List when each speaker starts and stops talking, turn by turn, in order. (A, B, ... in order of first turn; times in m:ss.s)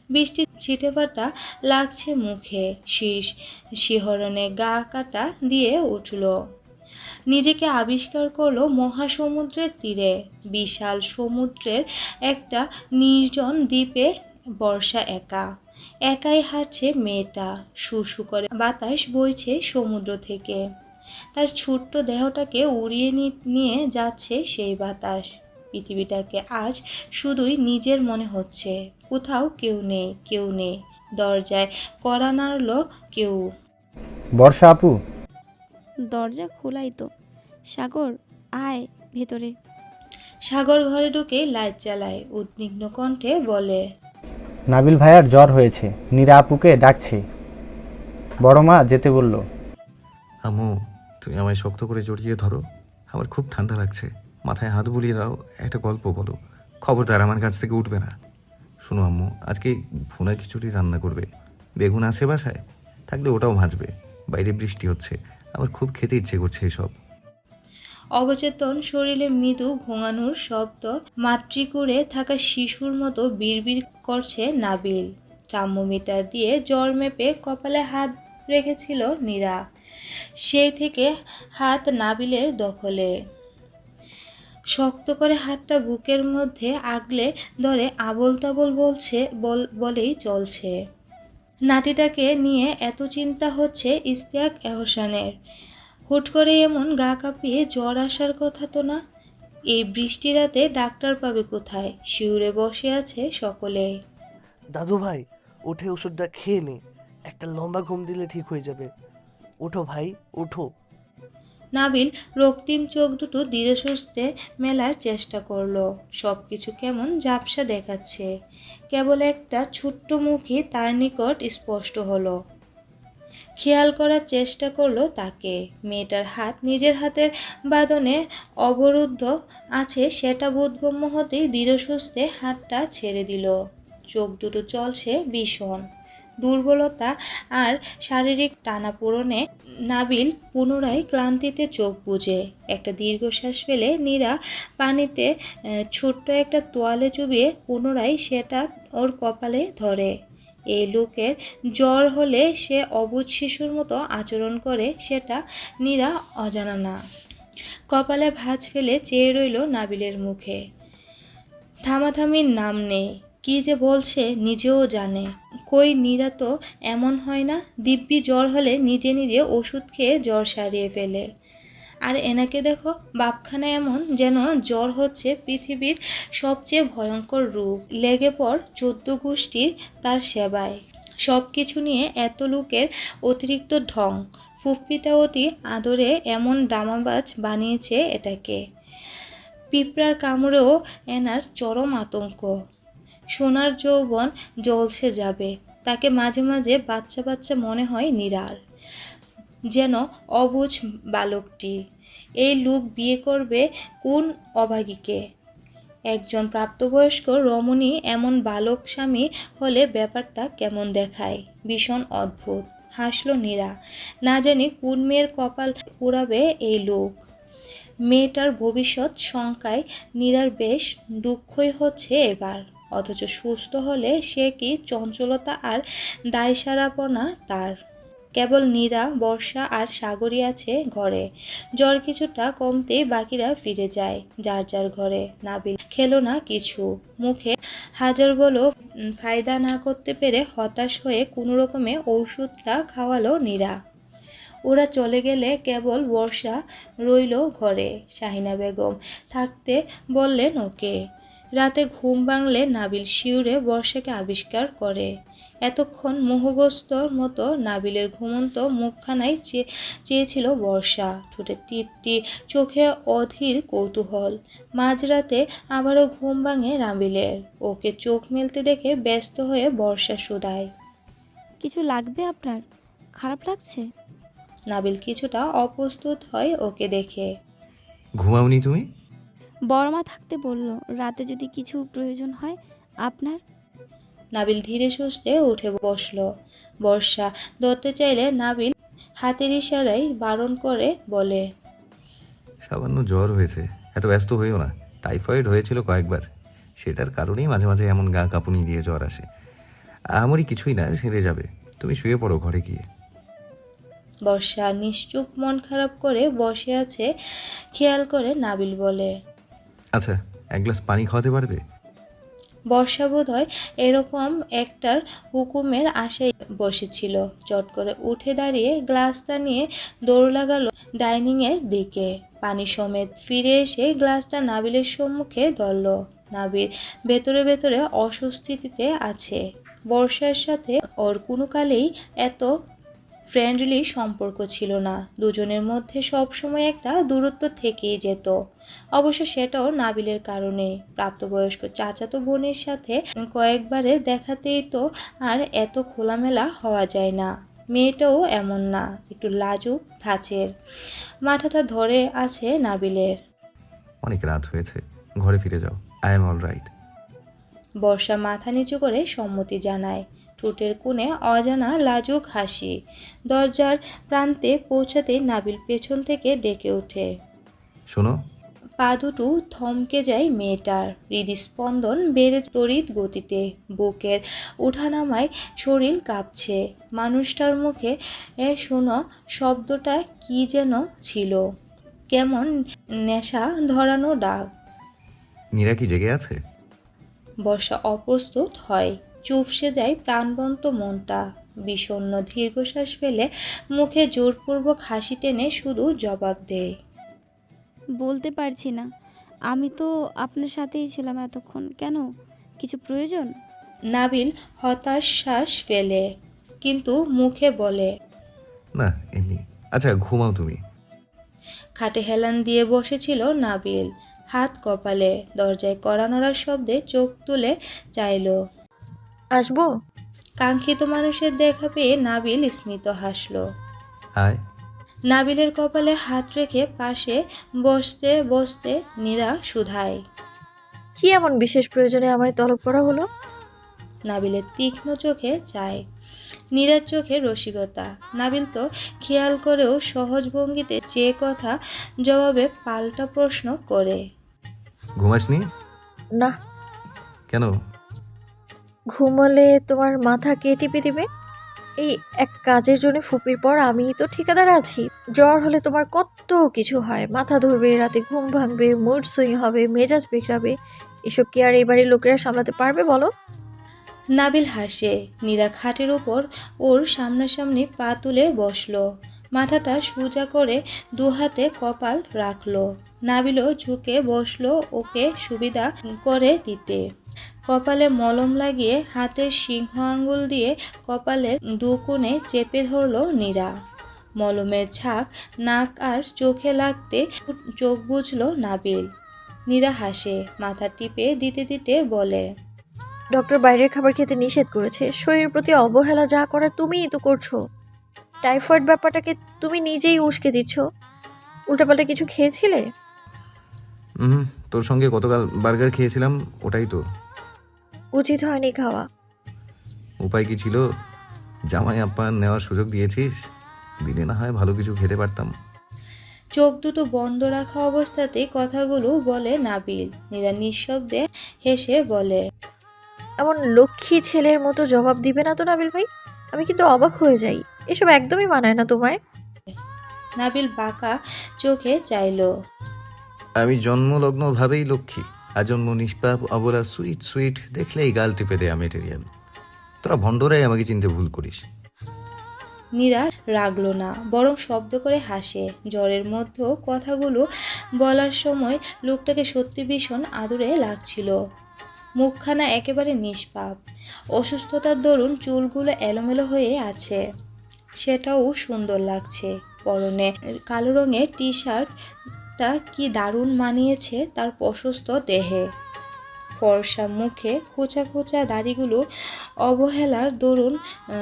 0:00.2-0:03.3 A
0:03.9-0:06.3 A
0:07.3-0:14.1 A
0:14.6-0:15.4 A
0:16.1-0:20.6 A
0:21.4-0:33.4 A
0:34.4-0:34.9 B
0:36.1-0:37.1 C
0:37.8-0:39.5 C
0:40.5-0:43.8 A
0:44.7-0:47.2 B
0:48.4-0:49.4 B
0:50.4-0:50.7 D
0:51.2-0:58.1 D
0:58.8-1:01.3 D
1:01.8-1:07.0 D
1:08.2-1:19.6 A
1:20.5-1:23.1 A
1:24.8-1:30.7 A
1:31.7-1:35.3 A
1:36.1-1:39.0 A
1:39.7-1:43.9 A
1:44.7-1:48.9 E
1:49.6-1:50.7 E
1:51.8-1:58.3 A
1:58.9-2:02.3 A
2:03.6-2:13.5 A
2:14.1-2:15.8 A
2:16.4-2:19.4 A
2:19.9-2:25.3 A
2:26.0-2:30.1 A
2:30.7-2:37.0 A
2:37.9-2:40.6 A
2:41.9-2:51.2 A
2:52.1-3:00.8 A
3:01.3-3:08.6 A
3:09.7-3:12.5 A
3:13.4-3:18.6 A
3:19.7-3:21.7 A
3:22.4-3:25.2 A
3:26.1-3:33.7 A
3:34.3-3:37.2 A
3:38.1-3:45.8 A
3:46.3-3:47.7 A
3:48.4-3:51.2 A
3:51.8-3:58.6 A
3:59.2-4:03.7 A
4:04.7-4:10.9 A
4:11.6-4:15.1 A
4:15.7-4:30.7 A
4:31.6-4:32.6 C
4:33.2-4:33.8 C
4:34.7-4:37.3 A
4:38.2-4:38.8 D
4:39.7-4:43.4 C
4:44.4-4:46.2 A
4:46.8-4:51.4 A
4:52.7-4:56.2 D
4:56.8-4:59.3 D
5:00.2-5:02.8 D
5:04.3-5:07.1 A
5:07.8-5:09.1 A
5:10.0-5:11.6 D
5:12.7-5:29.4 A
5:29.9-5:32.5 A
5:33.3-5:38.3 A
5:39.0-5:50.5 A
5:51.3-5:53.1 A
5:54.0-5:56.7 D
5:57.8-6:02.7 A
6:03.3-6:07.1 A
6:07.9-6:08.2 D
6:08.8-6:17.9 A
6:18.5-6:21.4 A
6:22.1-6:22.5 A
6:23.1-6:24.4 A
6:25.6-6:26.4 D
6:27.4-6:36.7 A
6:38.0-6:38.8 C
6:39.5-6:42.0 C
6:42.6-6:43.3 C
6:43.9-6:46.0 A
6:46.6-6:47.9 A
6:48.8-6:50.6 D
6:51.8-6:58.3 A
6:59.4-6:59.7 F
7:00.4-7:03.4 A
7:05.1-7:10.0 A
7:11.0-7:13.1 F
7:14.1-7:15.8 A
7:16.6-7:21.6 A
7:22.1-7:24.0 A
7:25.0-7:25.4 D
7:29.0-7:31.0 F
7:31.8-7:40.5 F
7:41.1-7:43.1 F
7:44.2-7:48.8 A
7:49.4-7:56.8 A
7:57.5-8:03.5 A
8:04.2-8:07.1 A
8:07.6-8:08.8 A
8:09.5-8:12.3 A
8:13.1-8:17.4 F
8:18.2-8:20.6 F
8:21.5-8:22.6 F
8:24.0-8:26.8 D
8:28.0-8:28.9 F
8:30.0-8:30.6 D
8:31.5-8:33.1 D
8:33.8-8:35.3 D
8:36.4-8:42.2 A
8:43.2-8:49.0 F
8:50.2-8:52.3 A
8:53.4-8:59.0 D
8:59.8-9:01.4 D
9:02.8-9:07.2 A
9:07.8-9:11.1 A
9:12.0-9:13.6 A
9:14.2-9:17.0 A
9:17.8-9:21.7 A
9:22.4-9:25.4 A
9:26.4-9:28.8 A
9:29.5-9:30.6 A